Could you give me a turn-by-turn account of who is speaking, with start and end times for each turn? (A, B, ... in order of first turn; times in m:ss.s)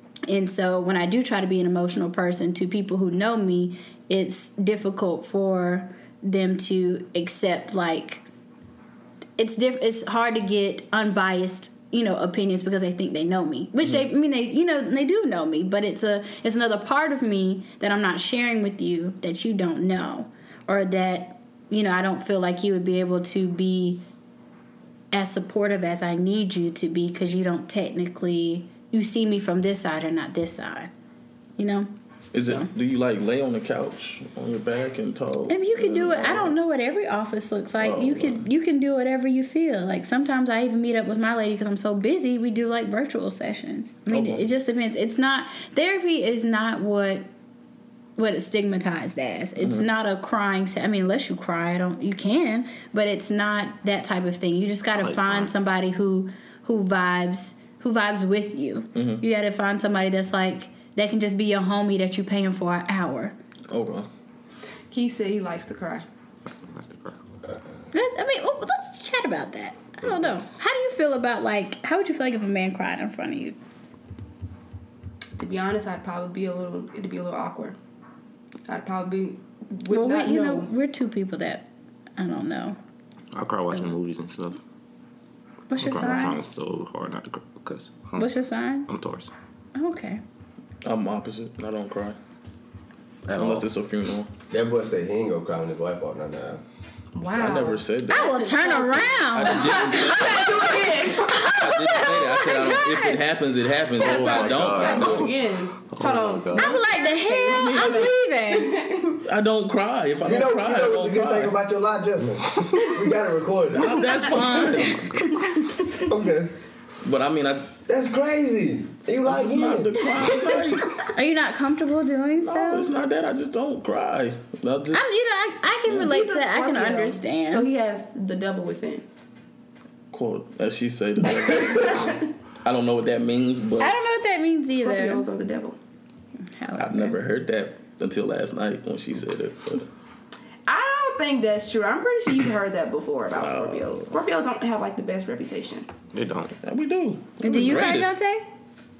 0:00.3-0:08.2 A
0:09.4-0:24.0 A
0:25.1-0:30.9 A
0:31.6-0:31.9 A
0:32.3-0:36.5 B
0:32.4-0:32.7 A
0:35.5-0:47.3 A
0:37.8-0:38.5 B
0:44.1-0:44.4 B
0:48.2-1:03.4 A
0:49.6-0:49.8 B
0:55.0-0:55.5 C
0:58.9-0:59.2 B
1:03.7-1:04.1 B
1:04.9-1:06.0 D
1:06.6-1:07.2 C
1:07.9-1:13.6 A
1:15.4-1:17.8 D
1:18.7-1:20.7 D
1:19.9-1:22.8 A
1:23.3-1:24.6 C
1:25.7-1:26.4 A
1:25.8-1:28.3 C
1:28.2-1:28.9 A
1:28.9-1:29.3 C
1:29.7-1:30.2 A
1:30.8-1:32.2 B
1:33.3-1:33.6 A
1:33.3-1:34.3 B
1:34.5-1:36.6 E
1:37.1-1:41.5 D
1:37.3-1:38.4 B
1:38.1-1:43.2 A
1:39.3-1:40.8 B
1:41.3-1:45.3 B
1:44.0-1:46.8 C
1:44.0-1:49.2 D
1:46.5-1:48.9 A
1:47.4-1:48.1 B
1:49.2-1:51.6 B
1:50.2-1:54.7 E
1:53.7-1:55.2 B
1:54.1-1:55.9 D
1:55.9-1:56.5 E
1:57.0-1:57.7 B
1:57.9-2:00.5 E
1:59.2-2:01.0 B
2:01.1-2:02.9 A
2:02.4-2:05.1 B
2:04.9-2:07.7 A
2:06.0-2:09.0 D
2:10.1-2:14.0 B
2:11.4-2:12.3 D
2:13.8-2:15.2 A
2:14.7-2:15.8 D
2:16.5-2:17.2 A
2:16.8-2:19.9 B
2:20.7-2:25.9 D
2:23.3-2:24.1 B
2:26.1-2:26.5 C
2:26.6-2:28.2 B
2:27.4-2:28.4 A